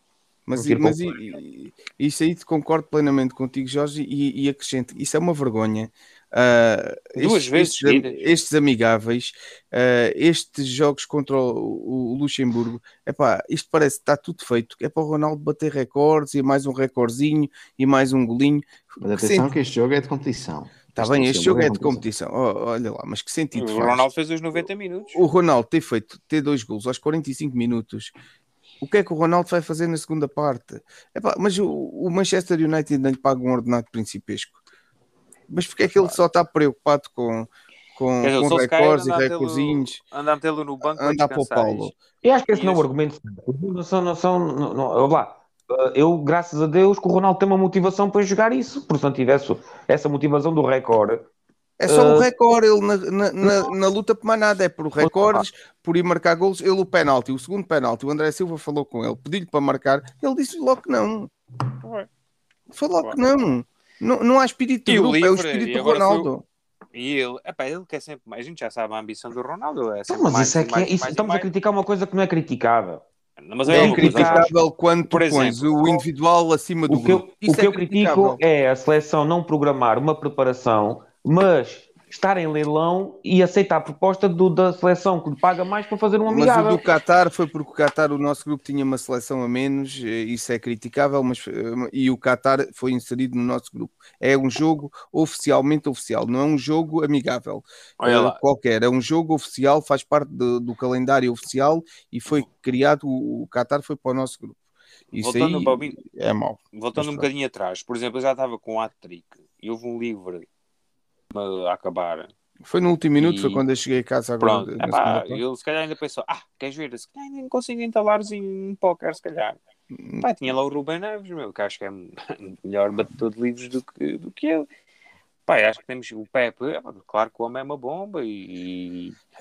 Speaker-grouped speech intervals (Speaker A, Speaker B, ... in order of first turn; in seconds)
Speaker A: 0.5-19.5, 20.9-28.1, 28.8-34.6, 35.5-40.0, 41.0-41.9, 51.8-61.3, 62.7-66.4, 73.7-78.4, 86.3-104.6, 105.1-107.3, 112.6-115.4
Speaker B: 0.5-1.2, 42.2-51.3, 51.8-52.3, 53.4-53.7, 55.0-55.4, 70.1-73.0, 73.7-74.5, 76.9-86.8
Speaker C: 7.2-8.3, 23.5-25.2, 38.2-41.9, 42.5-42.8, 61.8-62.1, 64.8-66.3, 66.9-71.5, 73.4-74.6, 75.1-76.0, 98.0-98.4, 105.2-106.0, 106.7-110.5, 111.3-112.3, 113.2-113.6, 114.4-119.6, 120.2-124.7, 125.5-129.2
Speaker D: 19.0-22.0